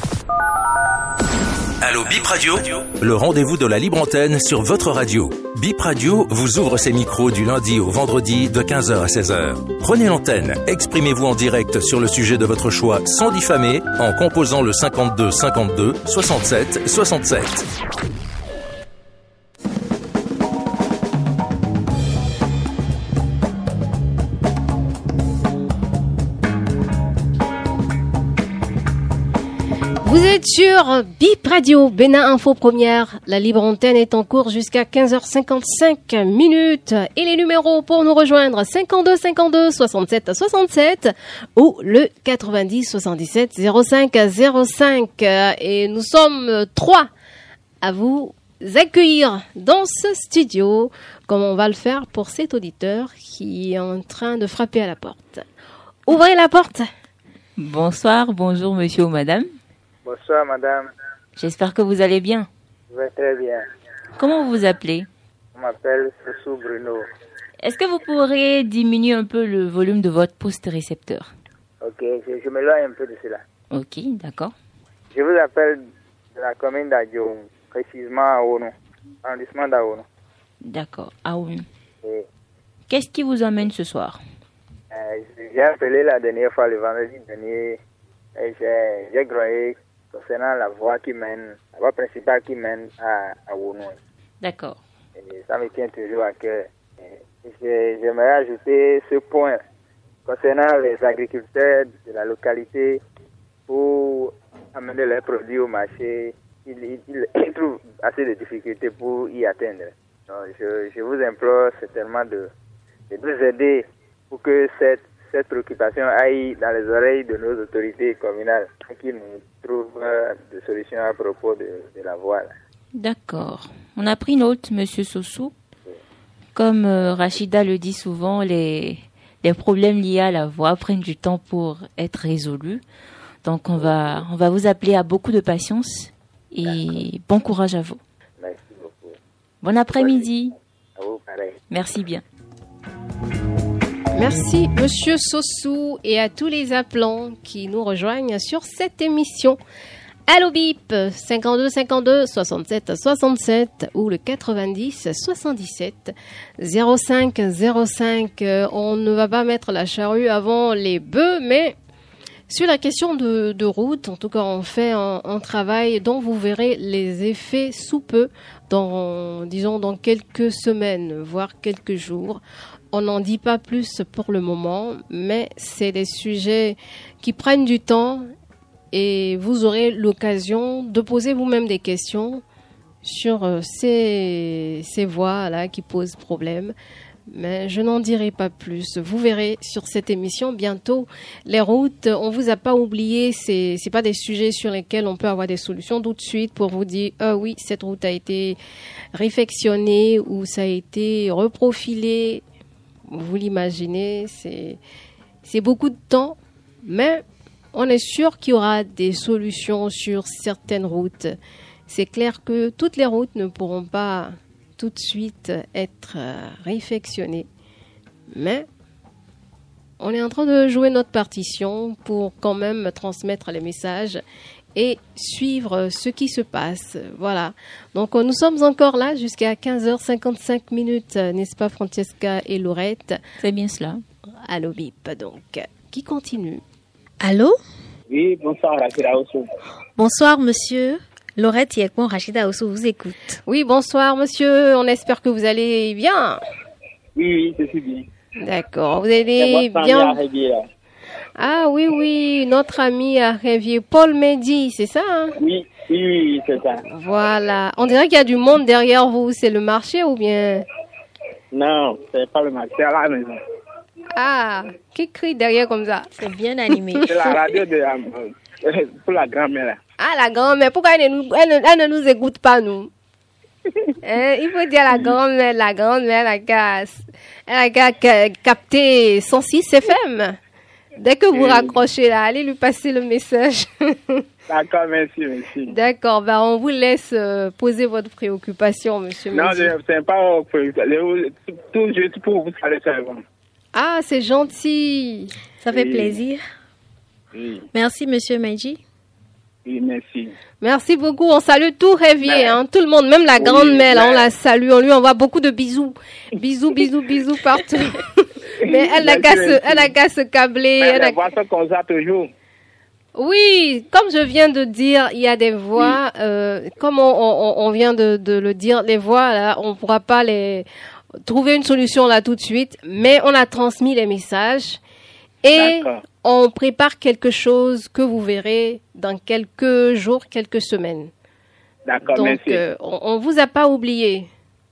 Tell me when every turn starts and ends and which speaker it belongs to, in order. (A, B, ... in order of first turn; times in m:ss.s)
0:01.8-0:17.7 A
0:30.0-0:47.1 B
0:47.8-0:55.4 B
0:56.1-0:56.9 B
0:57.6-0:59.5 C
1:00.0-1:00.9 D
1:01.4-1:02.5 C
1:02.9-1:03.7 D
1:04.2-1:05.1 C
1:05.6-1:07.1 D
1:07.6-1:11.3 C
1:11.8-1:13.4 D
1:13.7-1:14.6 C
1:15.1-1:18.7 D
1:19.2-1:20.0 D
1:20.6-1:21.7 C
1:22.9-1:24.2 C
1:24.9-1:27.8 D
1:28.4-1:34.0 D
1:34.4-1:34.8 C
1:35.2-1:39.6 D
1:40.3-1:43.0 D
1:43.7-1:52.5 D
1:53.1-2:02.5 D
2:03.0-2:05.5 C
2:06.6-2:12.8 C
2:13.4-2:18.0 C
2:16.7-2:17.0 D
2:18.4-2:19.2 D
2:19.6-2:20.5 C
2:20.0-2:20.3 D
2:21.0-2:21.6 D
2:21.7-2:22.2 C
2:24.2-2:29.6 B
2:30.3-2:41.8 B
2:42.5-2:52.4 B
2:52.9-2:58.3 B
2:58.9-3:02.4 B
3:03.0-3:06.7 B
3:07.3-3:18.6 B
3:19.2-3:22.4 B
3:23.1-3:24.8 B
3:25.4-3:27.2 B
3:27.7-3:31.4 B
3:31.9-3:37.5 B
3:38.3-3:38.7 B
3:40.0-3:44.2 B
3:44.8-3:53.2 B
3:53.4-3:54.0 C
3:54.5-3:56.6 B
3:57.2-3:57.6 E
3:58.1-3:59.5 F
4:00.0-4:03.4 E
4:03.5-4:06.4 B
4:07.2-4:08.1 F
4:08.4-4:10.2 B
4:09.4-4:10.6 F
4:11.4-4:15.3 B
4:15.4-4:16.8 F
4:16.9-4:20.6 B
4:21.5-4:23.4 F
4:24.2-4:26.1 B
4:26.2-4:27.1 E
4:27.1-4:29.8 F
4:30.0-4:32.9 B
4:34.0-4:40.4 B
4:41.0-4:44.2 B
4:41.3-4:41.8 F
4:44.5-4:45.7 F
4:45.7-4:49.7 B
4:49.3-4:53.2 F
4:53.8-4:55.3 B
4:55.6-4:56.4 E
4:55.7-4:56.2 F
4:57.3-4:57.6 F
4:57.7-4:58.8 E
4:59.6-5:00.3 F
5:00.6-5:11.2 B
5:02.2-5:02.6 F
5:03.4-5:04.3 F
5:08.6-5:09.9 F
5:10.8-5:12.3 F
5:13.2-5:20.7 B
5:21.2-5:24.8 B
5:25.4-5:31.1 B
5:25.6-5:26.0 F
5:31.9-5:32.6 F
5:32.1-5:34.3 B